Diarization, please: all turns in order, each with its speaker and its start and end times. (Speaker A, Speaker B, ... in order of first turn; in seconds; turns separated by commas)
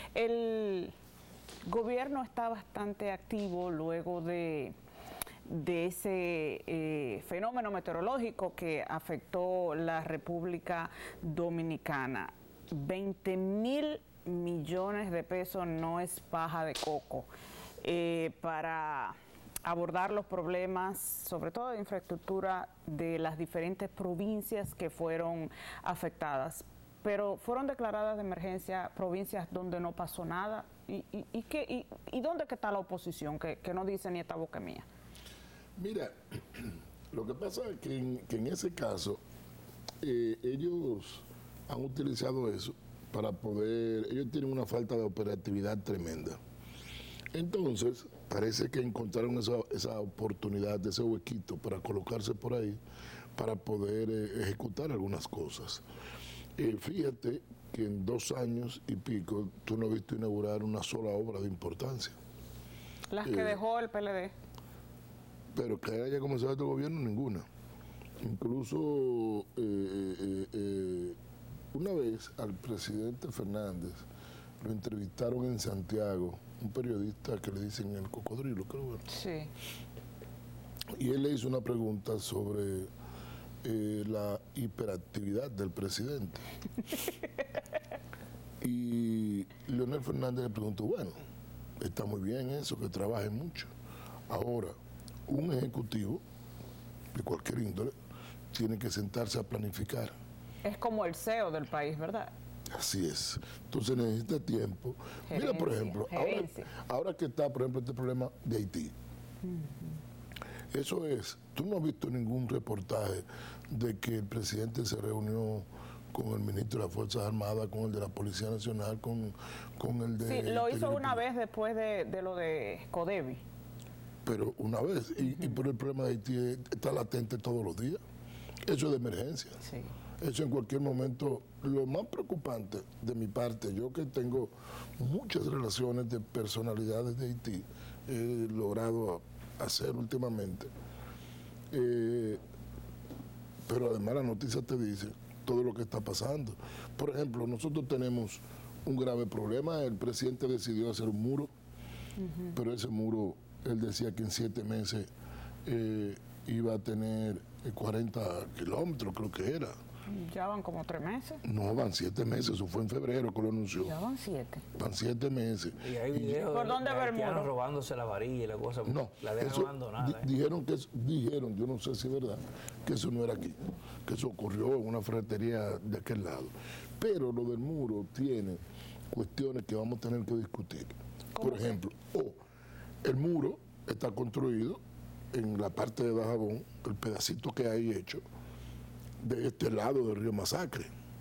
Speaker A: 0.1-0.9, Speaker A: 1.7-4.8, Speaker A: 5.5-17.3, Speaker A: 17.8-34.9, Speaker B: 35.8-39.2, Speaker B: 40.0-46.4, Speaker B: 47.3-52.8, Speaker B: 53.4-55.8, Speaker B: 56.6-62.1, Speaker A: 63.1-64.3, Speaker B: 63.2-63.6, Speaker B: 65.5-67.5, Speaker B: 68.2-71.2, Speaker B: 71.7-74.0, Speaker B: 74.6-79.0, Speaker A: 79.1-79.5, Speaker B: 81.0-82.9, Speaker B: 83.6-86.5, Speaker B: 88.6-91.2, Speaker B: 91.8-93.7, Speaker B: 94.3-94.8, Speaker B: 95.3-96.2, Speaker B: 97.1-97.9, Speaker B: 98.5-100.1, Speaker A: 100.6-102.3, Speaker B: 102.7-108.9, Speaker A: 105.3-106.7, Speaker A: 109.4-110.0, Speaker B: 110.7-121.2, Speaker A: 120.2-123.4, Speaker B: 124.2-128.0, Speaker A: 125.2-125.5, Speaker B: 128.7-129.6, Speaker A: 129.6-129.9, Speaker B: 130.2-140.7, Speaker B: 141.7-142.4, Speaker B: 143.7-151.5, Speaker A: 152.2-152.6, Speaker B: 152.5-155.1, Speaker B: 155.7-159.8, Speaker A: 160.1-161.4, Speaker B: 161.4-163.9, Speaker A: 163.8-164.6, Speaker B: 164.8-166.4, Speaker C: 165.8-170.3, Speaker A: 166.4-167.5, Speaker B: 168.8-178.6, Speaker B: 179.1-182.4, Speaker A: 181.3-181.8, Speaker B: 183.0-184.8, Speaker B: 185.3-188.2, Speaker B: 189.2-190.9